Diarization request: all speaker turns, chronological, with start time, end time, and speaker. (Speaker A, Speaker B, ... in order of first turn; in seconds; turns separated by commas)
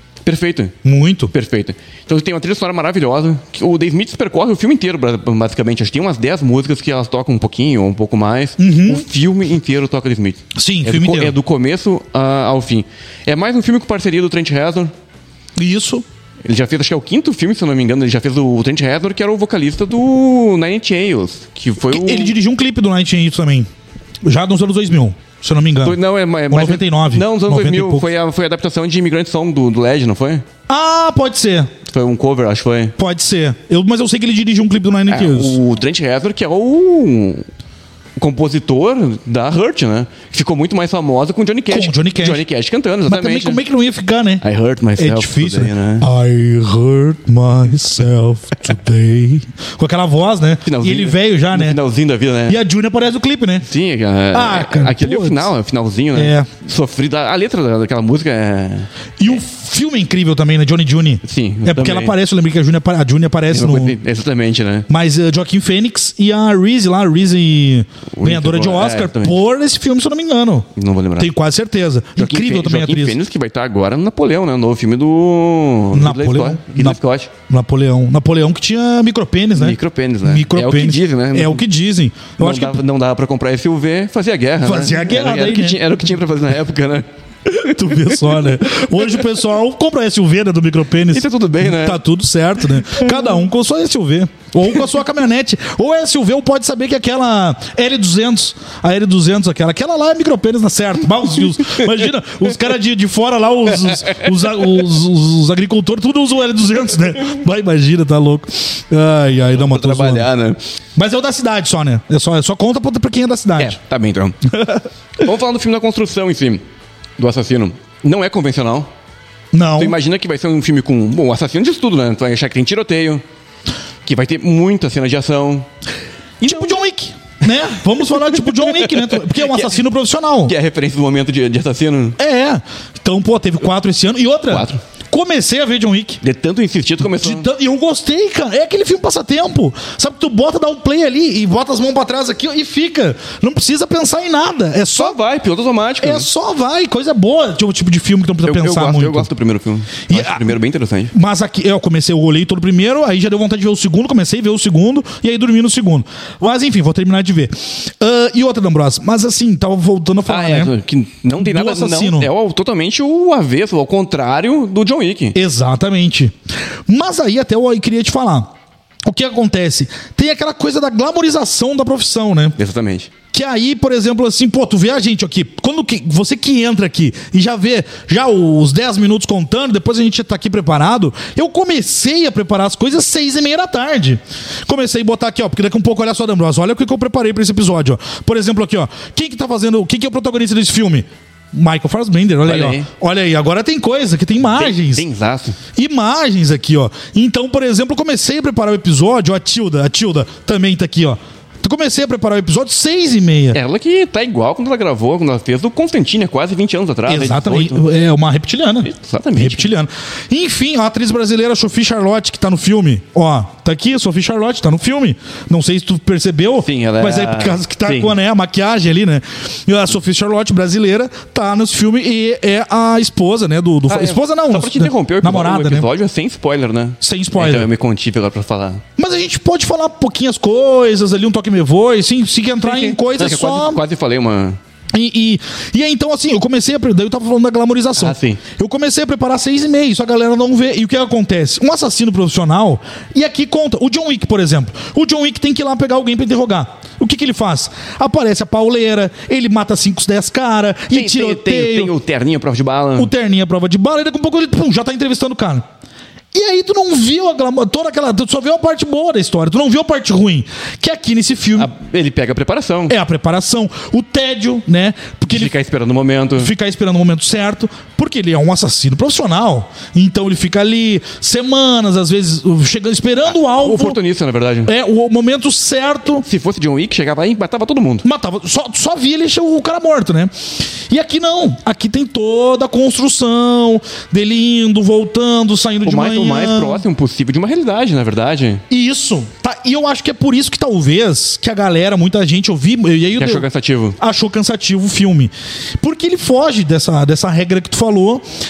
Speaker A: 0.2-0.7, Speaker B: 0.8-1.3, Speaker A: 1.3-14.9, Speaker B: 8.6-9.0, Speaker B: 10.5-11.3, Speaker B: 15.6-16.0, Speaker A: 16.4-22.3, Speaker B: 21.9-23.7, Speaker B: 24.2-26.0, Speaker A: 25.8-30.4, Speaker B: 26.5-28.1, Speaker B: 30.7-31.7, Speaker A: 31.8-33.0, Speaker B: 33.0-35.6, Speaker A: 35.1-37.5, Speaker A: 38.2-43.6, Speaker B: 41.7-42.4, Speaker B: 43.0-44.4, Speaker A: 44.4-46.1, Speaker B: 45.0-51.8, Speaker A: 50.6-52.6, Speaker B: 52.5-53.6, Speaker A: 53.6-58.9, Speaker B: 54.3-55.5, Speaker B: 56.1-56.5, Speaker B: 59.2-64.0, Speaker A: 61.2-62.1, Speaker A: 63.5-64.9, Speaker B: 64.9-73.2, Speaker A: 68.1-69.3, Speaker A: 70.7-71.3, Speaker A: 72.2-77.3, Speaker B: 75.9-82.8, Speaker A: 79.5-81.6, Speaker A: 82.4-89.2, Speaker B: 84.6-85.8, Speaker B: 87.5-110.3, Speaker A: 91.1-92.0, Speaker A: 109.5-110.6, Speaker B: 111.0-113.8, Speaker A: 113.6-114.4, Speaker B: 114.5-114.8, Speaker A: 115.2-116.6, Speaker A: 117.2-118.9, Speaker B: 119.5-120.0, Speaker A: 119.8-123.2, Speaker A: 124.0-125.7, Speaker A: 126.4-126.7, Speaker B: 126.4-130.5, Speaker A: 128.1-129.8, Speaker A: 130.4-132.2, Speaker B: 132.2-136.2, Speaker A: 134.5-134.8, Speaker A: 136.2-137.5, Speaker B: 137.0-145.2, Speaker A: 144.9-146.3, Speaker B: 146.0-149.3, Speaker A: 148.4-151.1, Speaker B: 150.1-150.5, Speaker B: 151.1-160.7, Speaker A: 160.2-165.4, Speaker B: 161.4-162.3, Speaker B: 165.3-166.3, Speaker B: 166.9-168.5, Speaker B: 169.0-172.6, Speaker A: 172.6-173.1, Speaker B: 173.3-195.0, Speaker A: 192.4-192.9, Speaker A: 194.5-195.6, Speaker B: 195.7-203.6, Speaker A: 203.5-207.8, Speaker B: 207.1-225.9, Speaker A: 208.8-209.7, Speaker A: 216.6-218.1, Speaker A: 223.9-228.8, Speaker B: 227.0-227.7, Speaker B: 229.0-233.8, Speaker A: 232.6-234.6, Speaker B: 234.9-251.9, Speaker A: 237.9-238.4, Speaker A: 250.9-253.1, Speaker B: 253.0-255.6, Speaker B: 256.3-261.7, Speaker A: 261.6-262.9, Speaker B: 262.9-265.5, Speaker A: 265.3-266.5, Speaker B: 266.4-274.0, Speaker A: 273.4-274.7, Speaker B: 274.6-276.2, Speaker A: 276.2-278.1, Speaker B: 278.0-286.8, Speaker A: 285.8-288.6, Speaker B: 288.7-293.4, Speaker A: 293.2-294.0, Speaker B: 294.0-298.3